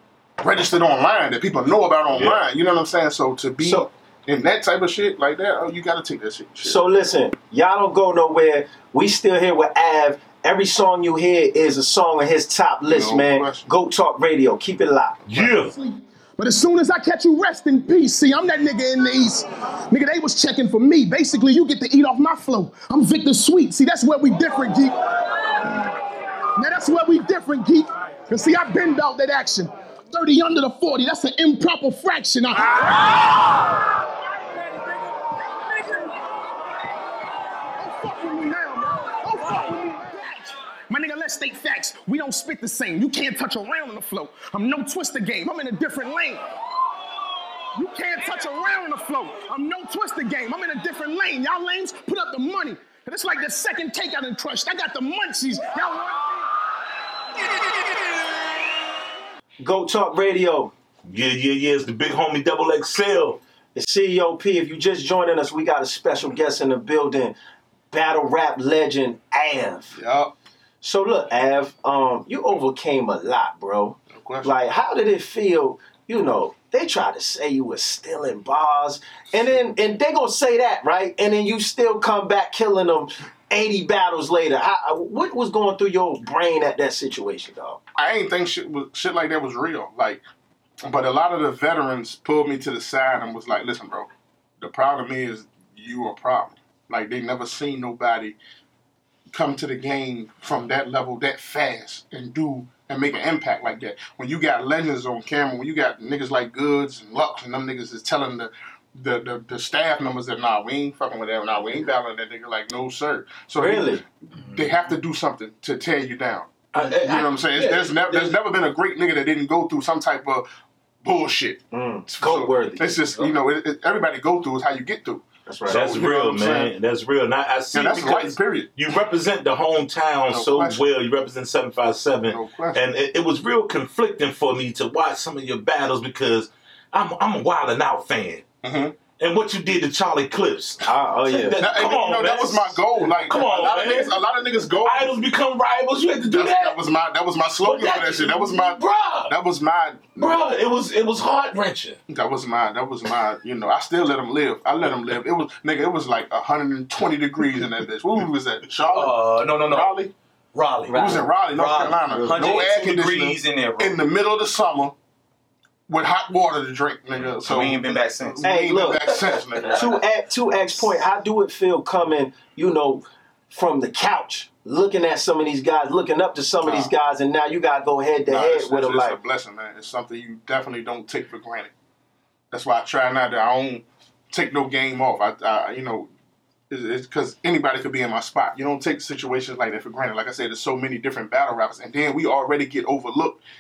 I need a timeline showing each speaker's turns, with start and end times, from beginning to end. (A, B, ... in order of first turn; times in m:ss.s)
0:00.4-0:06.9 A
0:02.1-0:02.4 B
0:03.6-0:03.9 C
0:06.6-0:15.2 C
0:12.9-0:13.7 A
0:15.3-0:15.7 B
0:15.7-0:25.0 D
0:26.6-0:33.7 D
0:34.5-0:36.2 D
0:37.8-0:46.4 D
0:47.8-0:56.3 D
0:59.6-1:00.7 C
1:01.0-1:03.4 B
1:03.8-1:07.4 C
1:07.9-1:10.0 C
1:10.0-1:10.3 A
1:10.8-1:27.8 C
1:14.1-1:14.5 A
1:19.3-1:19.6 A
1:28.0-1:30.2 A
1:30.8-1:34.1 A
1:34.6-1:38.4 A
1:39.3-2:00.5 A
1:53.6-1:54.0 C
1:56.7-1:58.4 B
2:01.0-2:06.7 A
2:01.7-2:03.0 C
2:05.5-2:05.8 C
2:05.7-2:18.5 B
2:07.7-2:08.7 A
2:10.3-2:10.8 A
2:12.3-2:12.8 A
2:18.6-2:19.0 A
2:19.2-2:24.2 B
2:20.8-2:21.6 C
2:21.6-2:25.1 A
2:24.8-2:26.8 B
2:26.3-2:30.4 A
2:27.6-2:29.3 B
2:30.2-2:32.0 B
2:32.1-2:40.1 A
2:38.8-2:40.0 E
2:40.5-2:44.0 E
2:40.9-2:45.0 A
2:45.9-2:49.9 A
2:47.4-2:48.5 E
2:48.4-2:49.2 C
2:49.7-2:59.2 C
2:56.6-2:56.9 A
2:58.3-3:01.7 A
3:02.5-3:06.1 A
3:06.7-3:13.4 A